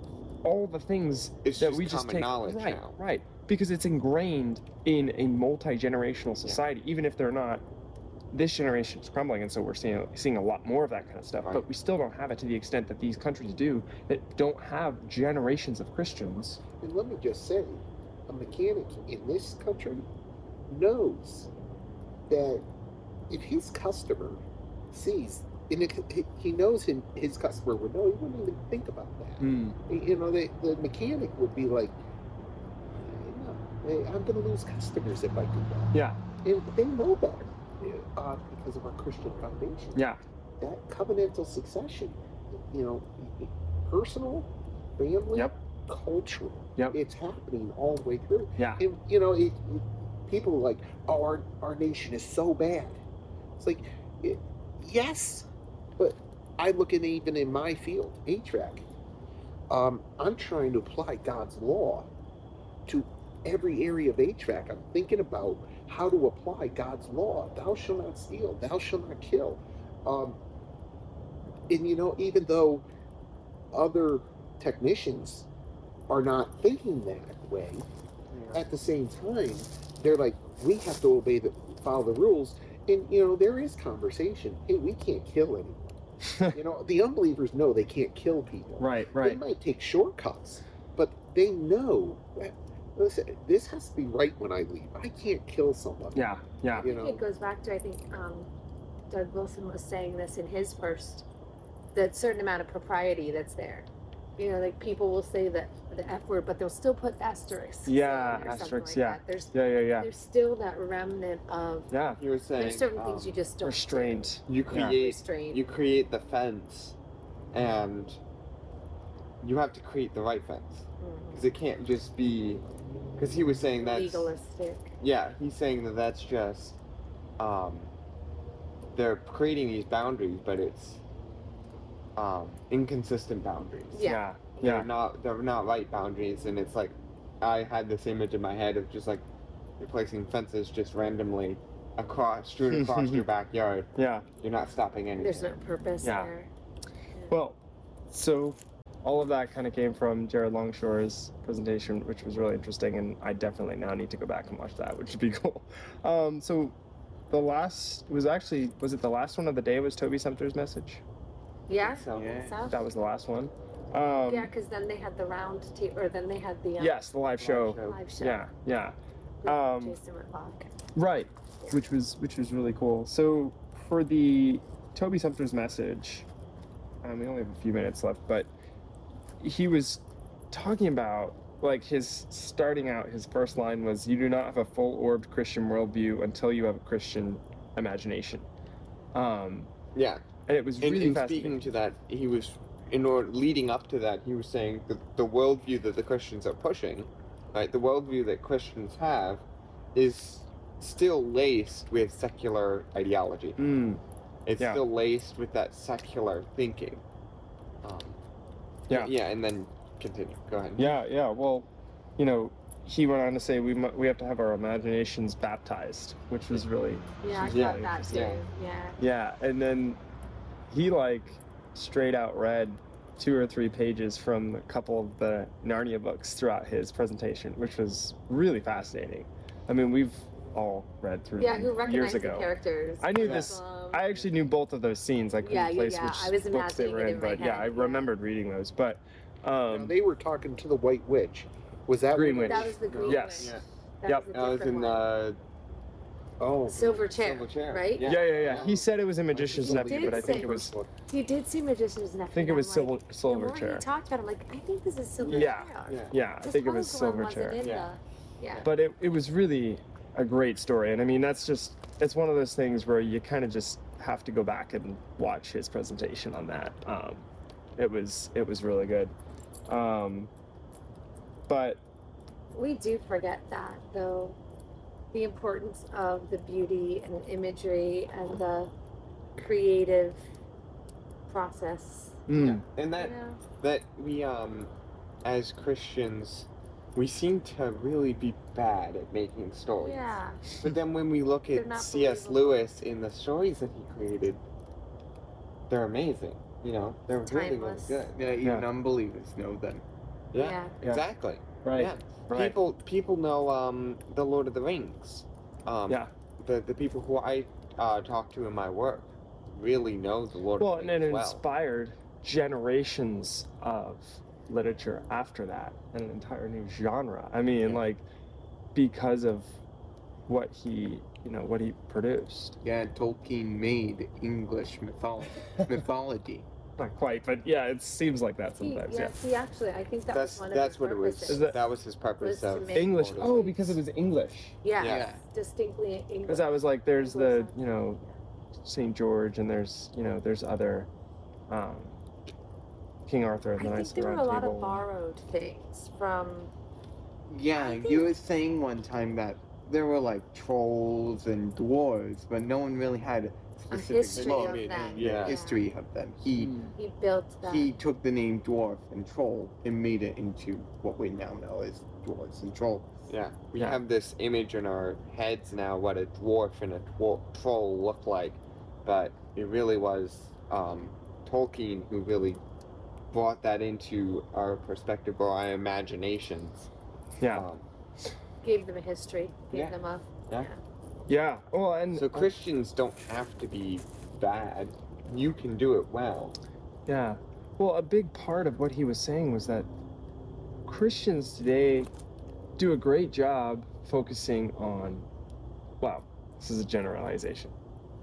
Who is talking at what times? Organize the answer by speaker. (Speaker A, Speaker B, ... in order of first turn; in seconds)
Speaker A: 0.4-7.6, 8.3-16.6, 29.4-29.8, 35.9-36.2, 86.3-86.6, 88.8-89.4, 96.2-96.9, 107.9-110.1, 111.9-112.2, 113.6-115.0, 134.0-134.9, 142.7-143.3, 143.9-144.3, 146.0-146.3, 147.3-147.6, 148.1-156.8, 157.3-161.0, 162.7-164.5, 166.8-170.0, 171.0-176.3, 177.0-178.5, 179.4-188.5, 189.1-189.7, 190.5-191.6, 203.6-204.0, 210.8-218.2, 219.0-220.0, 220.7-239.9, 242.1-243.6, 248.0-250.7, 252.3-253.8, 255.3-257.6, 258.6-267.3, 267.8-269.1, 269.7-270.3, 271.5-271.8, 282.3-282.6, 298.4-298.7, 301.6-302.6, 310.6-318.0, 318.8-319.6, 320.3-322.6, 326.8-329.2, 331.3-331.6, 332.8-334.6, 336.3-338.0, 338.6-340.9, 341.5-342.0, 343.1-344.8, 356.4-356.7, 377.2-377.5, 381.1-382.3, 386.9-389.7, 390.7-391.9, 392.6-395.1, 395.8-397.6
Speaker B: 1.4-3.0, 78.3-78.6, 112.2-113.4, 114.5-117.0, 117.5-118.2, 119.4-122.6, 123.2-124.3, 125.0-126.8, 127.4-127.9, 128.9-131.0, 132.2-139.2, 139.8-145.6, 161.7-162.4, 167.4-168.0, 189.9-190.3, 190.8-199.4, 199.9-203.6, 204.5-207.0, 207.8-208.2, 208.9-211.0, 217.5-218.4, 233.2-233.5, 242.9-243.6, 244.3-245.4, 246.8-248.7, 255.2-256.1, 257.6-257.9, 282.4-284.7, 285.2-294.4, 295.7-298.3, 300.3-311.4, 330.1-333.8, 334.8-335.1, 354.1-355.4, 363.1-372.4, 373.1-376.7, 377.3-377.7, 381.9-386.4
Speaker C: 16.8-20.1, 20.7-21.5, 22.3-22.7, 23.3-32.0, 32.9-40.0, 40.6-53.0, 53.6-58.9, 59.7-62.1, 62.9-70.4, 71.7-72.8, 73.7-75.5, 76.1-77.9, 78.5-85.8, 86.5-96.2, 96.7-97.2, 239.7-243.1, 246.4-247.0, 248.4-250.9
Speaker D: 96.8-98.5, 99.1-101.3, 102.0-111.9, 112.6-115.6, 121.0-121.5, 123.8-125.0, 133.9-134.2, 145.2-146.5, 161.7-162.8, 164.3-167.0, 167.7-168.4, 169.4-170.7, 217.2-219.0, 231.4-234.1, 235.4-238.1, 242.4-245.1, 246.7-248.2, 249.6-258.7, 272.5-274.4, 275.1-278.7, 279.4-280.2, 281.3-282.2, 283.0-283.4, 289.8-290.4, 291.5-292.6, 297.2-298.1, 300.4-300.7, 328.6-331.6, 332.2-333.6, 334.6-338.1, 343.6-346.5, 347.6-348.1, 353.7-355.7, 356.8-357.7, 378.4-380.6
Speaker E: 162.1-162.7, 298.1-299.8, 322.6-326.5, 334.8-335.2, 347.3-356.6, 357.4-362.9